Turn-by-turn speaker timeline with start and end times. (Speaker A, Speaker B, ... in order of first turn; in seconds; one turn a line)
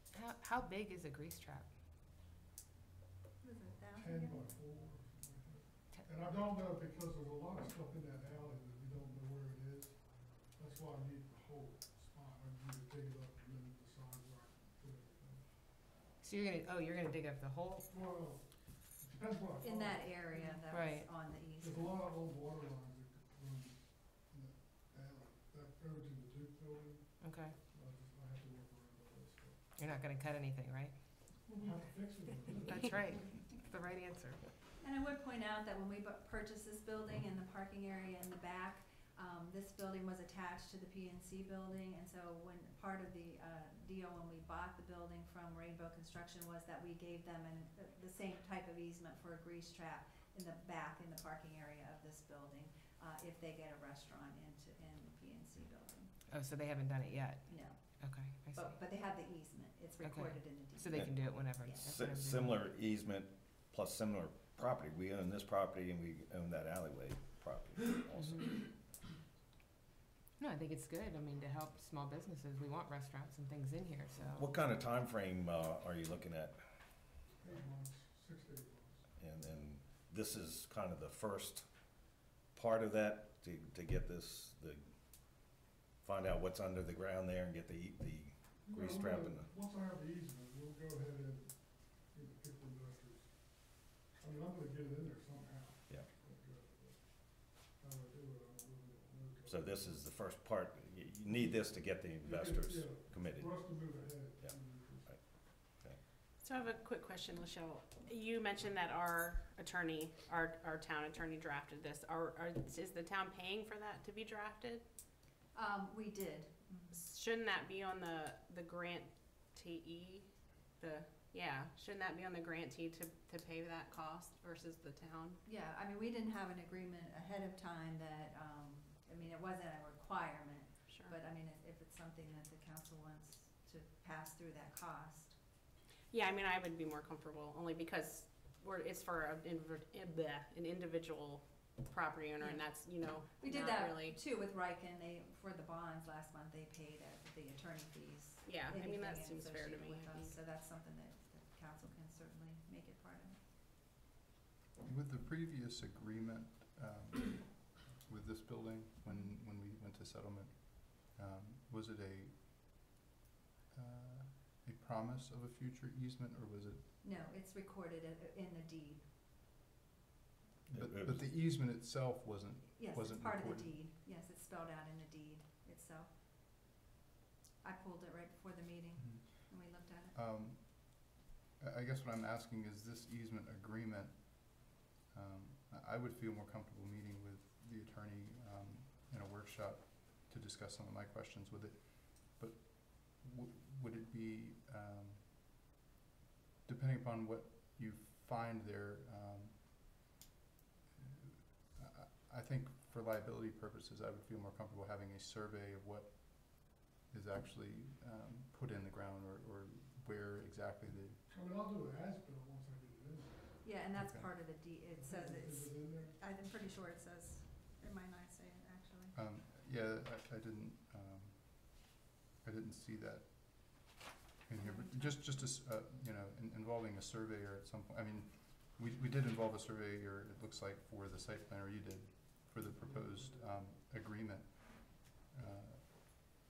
Speaker A: 0.1-1.7
Speaker B: 3.4-4.5
Speaker C: 3.9-15.4
Speaker A: 16.2-17.9
Speaker C: 17.9-20.7
Speaker B: 19.6-22.1
Speaker A: 20.7-21.3
Speaker C: 21.6-29.7
Speaker A: 27.2-27.6
Speaker A: 29.7-31.5
Speaker C: 31.5-33.4
Speaker A: 32.6-34.5
Speaker B: 34.8-56.1
Speaker A: 56.3-58.8
Speaker B: 57.5-61.9
Speaker A: 60.0-62.7
Speaker D: 60.9-61.2
Speaker D: 61.8-68.6
Speaker A: 68.1-68.6
Speaker A: 70.4-74.5
Speaker D: 74.3-76.6
Speaker C: 77.4-79.1
Speaker D: 79.2-81.8
Speaker D: 82.5-84.8
Speaker D: 86.0-89.5
Speaker C: 88.7-99.9
Speaker D: 99.5-103.8
Speaker C: 102.2-105.1
Speaker D: 104.3-106.0
Speaker E: 106.4-114.8
Speaker B: 115.5-117.0
Speaker E: 116.9-125.4
Speaker B: 125.4-135.4
Speaker E: 130.9-131.1
Speaker E: 136.1-144.2
Speaker B: 142.4-142.7
Speaker B: 143.4-153.4
Speaker E: 148.4-150.3
Speaker F: 154.8-162.8
Speaker F: 163.7-166.8
Speaker B: 167.0-169.1
Speaker F: 170.7-173.8
Speaker D: 170.7-171.2
Speaker B: 172.7-176.1
Speaker B: 177.6-180.2
Speaker F: 179.0-179.5
Speaker F: 180.1-195.6
Speaker F: 196.6-200.0
Speaker F: 200.9-211.2
Speaker C: 211.3-213.7
Speaker B: 213.6-219.2
Speaker F: 213.9-214.6
Speaker C: 215.0-216.2
Speaker F: 219.1-235.8
Speaker B: 224.6-225.4
Speaker C: 232.8-233.4